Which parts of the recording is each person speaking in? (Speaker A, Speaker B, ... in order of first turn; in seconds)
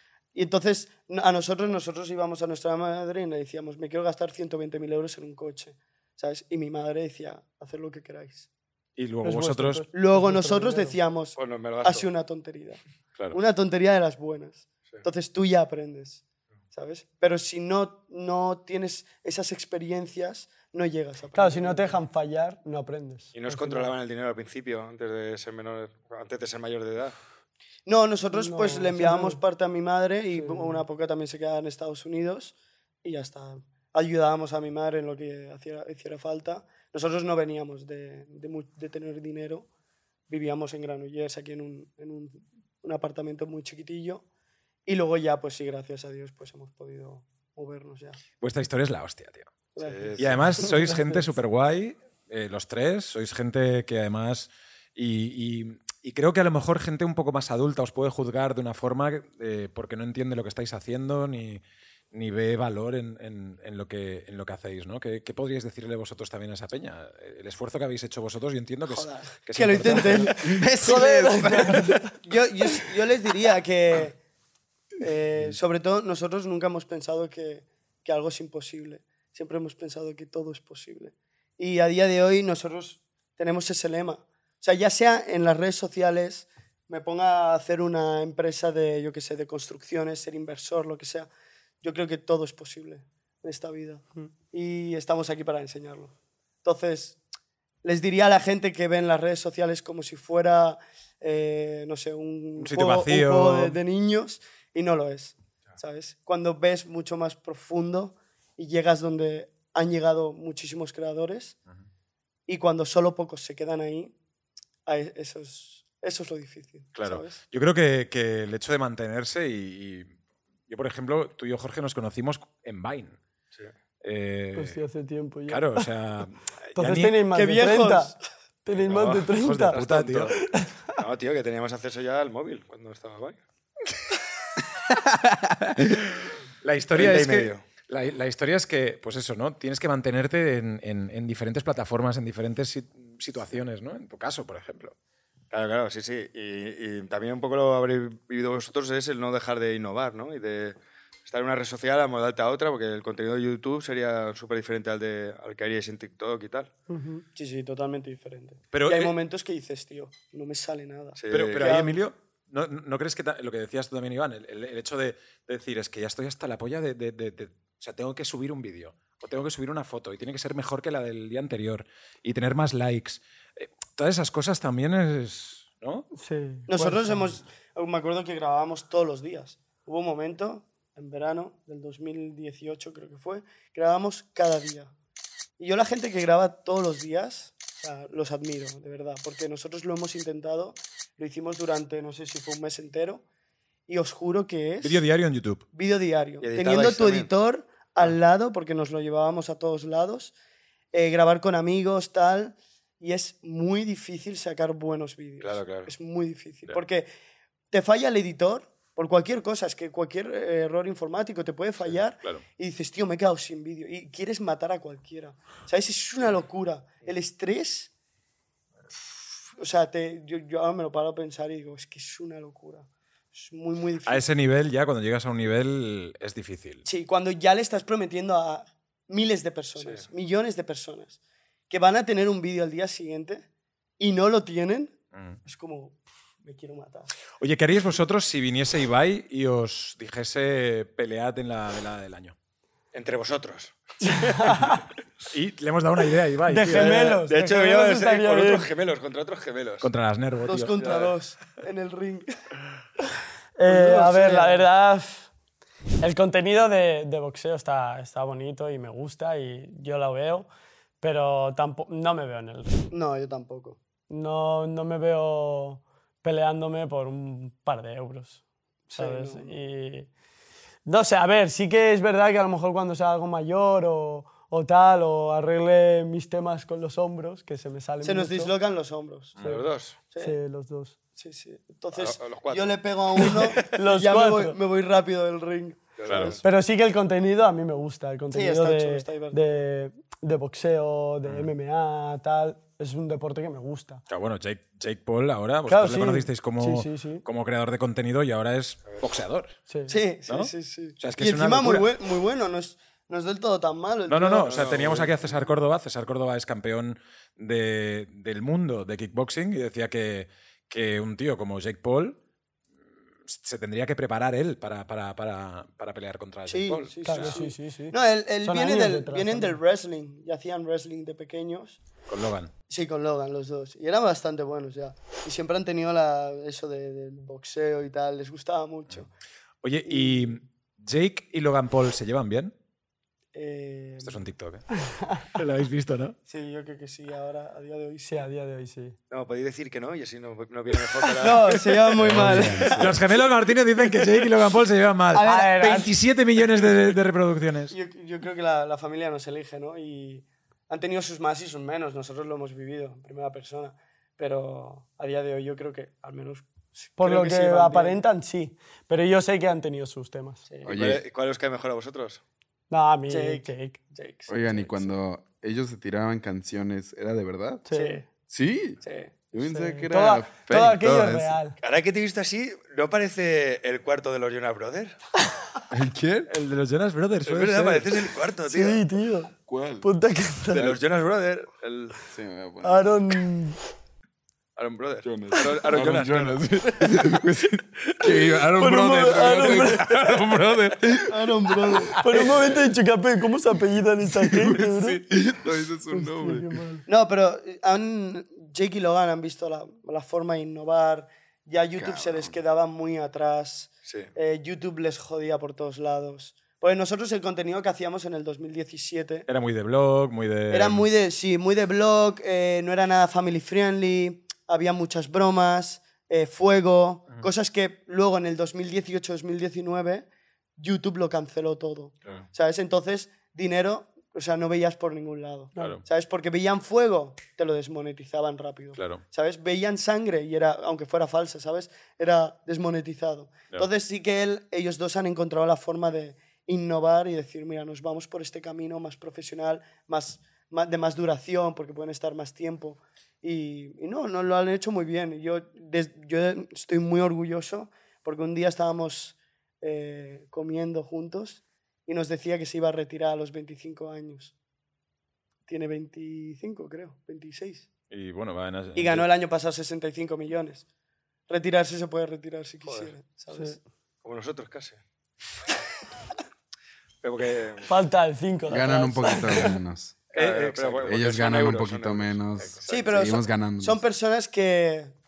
Speaker A: 0.3-8.5, 9.9-12.8, 13.3-16.2, 16.7-22.0, 27.9-39.7, 40.3-44.2, 44.9-48.2, 49.7-50.7, 68.9-70.7, 71.5-74.2, 75.0-91.3, 91.8-97.2, 97.8-111.6, 112.5-114.1, 114.8-117.4, 127.3-128.2, 157.3-162.0, 176.7-184.9, 185.6-193.2, 193.9-195.0, 195.7-200.3, 200.9-207.1, 207.7-217.9, 219.6-224.2, 226.8-231.2, 231.7-233.4, 234.0-237.1, 250.4-252.3, 253.7-254.6, 262.9-263.8, 268.9-269.5, 278.0-279.4, 280.1-280.4, 281.1-286.4, 288.3-289.4, 299.9-305.1, 316.5-321.8, 322.7-329.1, 329.9-330.4, 333.3-334.2, 336.2-338.2, 341.2-343.0, 345.1-345.9, 347.7-358.0, 363.1-364.9, 367.7-368.0, 368.8-369.1, 391.1-392.3, 396.9-409.3, 410.5-420.1, 420.6-454.3, 455.5-457.7, 458.8-460.6, 461.3-463.6, 472.7-474.9
Speaker B: 9.0-9.8, 48.4-49.5, 50.2-70.4, 102.6-103.8, 116.9-120.1, 120.7-123.2, 124.0-124.8, 125.5-127.2, 129.3-130.4, 136.2-144.9, 158.7-159.1, 161.3-176.1, 194.8-195.6, 224.0-226.8, 235.1-235.4, 237.4-242.3, 245.3-247.2, 249.8-250.8, 279.4-279.6, 286.1-286.4, 291.2-291.5, 294.1-299.6, 300.3-301.9, 304.1-312.2, 313.3-317.4, 322.1-322.5, 329.6-332.5, 334.0-334.6, 335.3-336.1, 342.1-347.7, 376.3-377.9, 409.3-410.9, 425.6-425.8, 428.8-429.0, 457.9-459.1, 470.1-470.9
Speaker C: 9.2-11.0, 21.3-23.9, 28.3-29.4, 30.3-30.8, 70.7-72.2, 124.5-125.9, 126.7-128.1, 128.6-129.8, 130.3-131.0, 156.9-157.2, 176.1-177.3, 244.0-244.8, 246.5-248.7, 253.6-255.3, 256.0-260.5, 261.0-262.9, 264.1-270.1, 270.9-278.5, 280.2-281.0, 283.2-284.6, 286.4-294.0, 295.7-297.2, 299.7-300.0, 317.0-319.6, 335.0-335.2, 338.1-338.9, 345.2-345.9, 357.0-360.4, 362.7-363.8, 367.6-368.0, 369.4-371.6, 378.4-380.8, 382.6-383.6, 388.5-390.0, 391.9-395.0, 395.9-396.9, 425.5-425.8, 463.3-463.6, 467.6-469.6
Speaker D: 11.3-12.1, 23.3-27.1, 49.8-50.4, 128.8-130.3, 130.9-133.4, 136.9-137.6, 145.5-156.7, 161.2-161.8, 196.4-197.3, 205.4-205.9, 229.8-230.1, 242.9-244.7, 246.7-249.9, 250.8-251.2, 279.4-280.0, 281.9-283.6, 286.0-286.4, 304.5-305.1, 339.1-342.7, 360.6-362.2, 371.6-374.9, 377.2-378.8, 380.5-382.0, 384.6-386.9, 403.9-404.1, 462.6-462.9, 464.0-464.8, 467.0-467.7, 470.1-473.0
Speaker E: 70.3-72.0, 134.9-135.8, 342.0-342.9, 360.6-361.0, 364.3-367.6, 368.3-368.8, 369.3-371.4, 375.7-376.3, 379.4-379.9, 382.1-382.9, 385.0-392.6, 394.1-396.6, 401.8-402.4, 468.5-470.0, 470.8-473.8